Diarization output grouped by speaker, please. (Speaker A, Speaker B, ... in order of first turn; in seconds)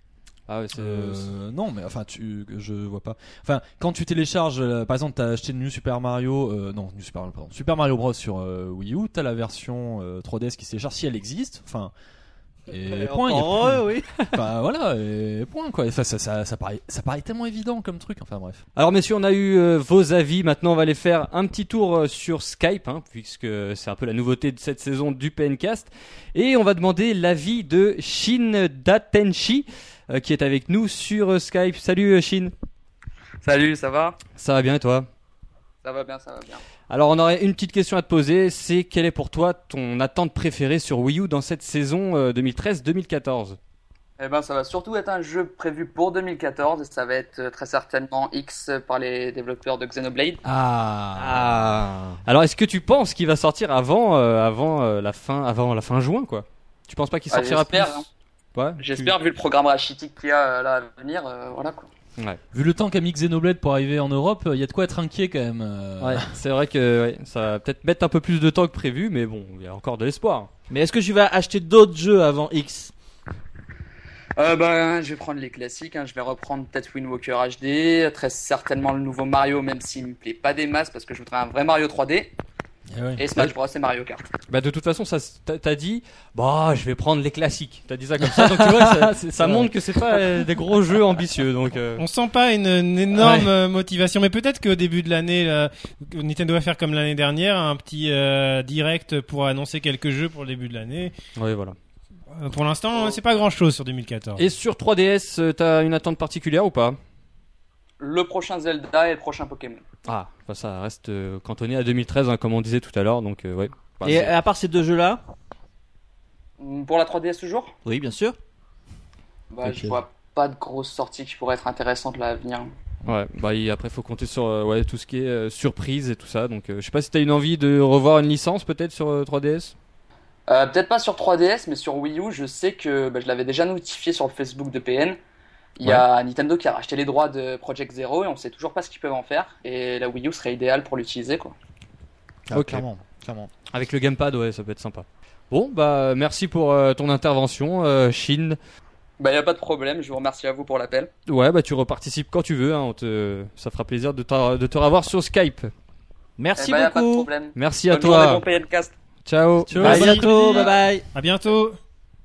Speaker A: 0.5-1.3, 18.8-32.5, 34.4-35.1, 36.9-43.6, 52.2-59.1, 66.0-70.5, 84.5-92.0, 93.2-93.5, 101.4-101.8, 104.4-107.0, 110.1-114.3, 123.0-129.8, 142.5-142.8, 143.7-148.6, 151.3-155.7, 157.6-158.4, 159.2-159.9
Speaker B: 0.8-11.9, 12.7-18.6, 50.4-51.7, 62.5-66.3, 82.9-83.5, 88.2-90.2, 119.6-120.0, 142.5-143.5, 159.6-160.8
Speaker C: 12.9-14.2, 51.1-52.2, 70.7-72.9, 114.0-115.2, 117.8-118.4, 156.4-157.3, 159.8-161.1
Speaker D: 33.4-34.2, 35.8-36.6, 44.2-50.4, 57.3-58.1, 58.8-61.9, 74.4-82.3, 83.2-84.2, 108.0-109.8, 116.6-117.7, 119.5-122.7, 130.5-135.2, 135.8-141.6, 149.2-151.1, 156.6-158.9
Speaker E: 92.0-101.1, 102.3-104.5, 159.8-161.8